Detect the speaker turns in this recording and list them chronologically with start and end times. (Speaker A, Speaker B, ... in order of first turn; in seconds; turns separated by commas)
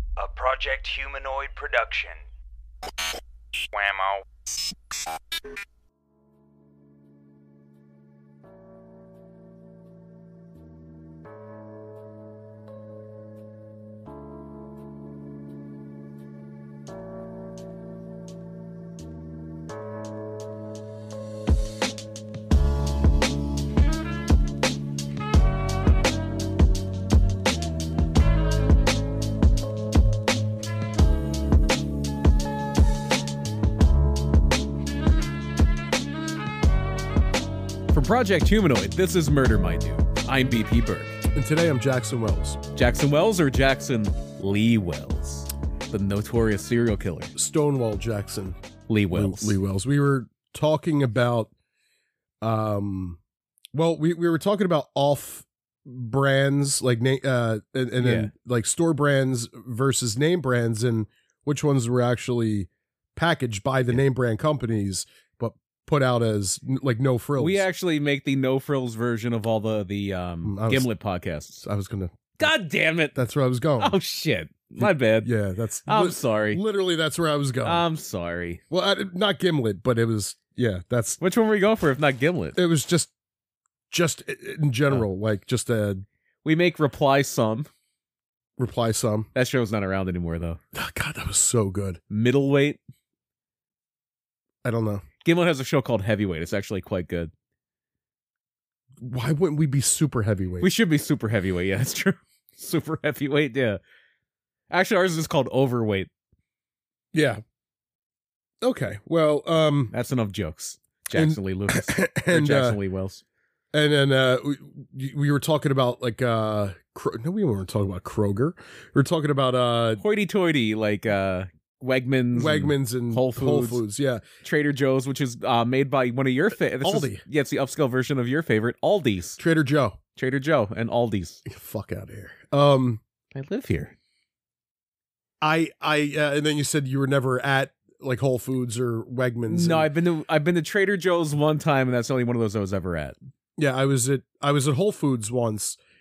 Speaker A: 0.2-2.2, Speaker A: 3.7-4.2, Speaker B: 37.9-41.2, Speaker C: 41.3-42.6, Speaker B: 42.7-47.3, Speaker C: 47.4-48.6, Speaker B: 48.9-49.6, Speaker C: 49.1-51.5, Speaker C: 52.4-53.2, Speaker C: 53.7-67.7, Speaker B: 58.0-58.3, Speaker B: 67.4-71.6, Speaker C: 70.5-70.9, Speaker C: 71.6-72.5, Speaker B: 72.4-73.2, Speaker C: 73.2-74.0, Speaker B: 73.8-75.3, Speaker C: 74.8-77.8, Speaker B: 75.9-76.6, Speaker B: 77.6-78.6, Speaker C: 78.7-81.2, Speaker B: 81.2-82.6, Speaker C: 82.6-83.1, Speaker C: 83.9-86.0, Speaker B: 86.4-87.7, Speaker C: 88.6-89.3, Speaker B: 89.3-90.6, Speaker C: 90.7-92.0, Speaker B: 92.1-92.8, Speaker C: 94.6-95.0, Speaker B: 95.2-97.3, Speaker C: 99.0-100.7, Speaker B: 100.6-103.8, Speaker B: 104.7-106.1, Speaker C: 107.1-107.4, Speaker C: 108.6-109.9, Speaker B: 109.9-113.2, Speaker C: 111.1-112.8, Speaker C: 113.7-120.0, Speaker B: 120.0-123.8, Speaker C: 122.3-124.2, Speaker B: 124.4-129.4, Speaker C: 126.8-127.2, Speaker C: 129.4-130.0, Speaker B: 130.2-131.4, Speaker C: 131.4-133.0, Speaker B: 133.3-133.9, Speaker C: 135.4-139.9, Speaker B: 139.5-143.2, Speaker C: 143.6-145.8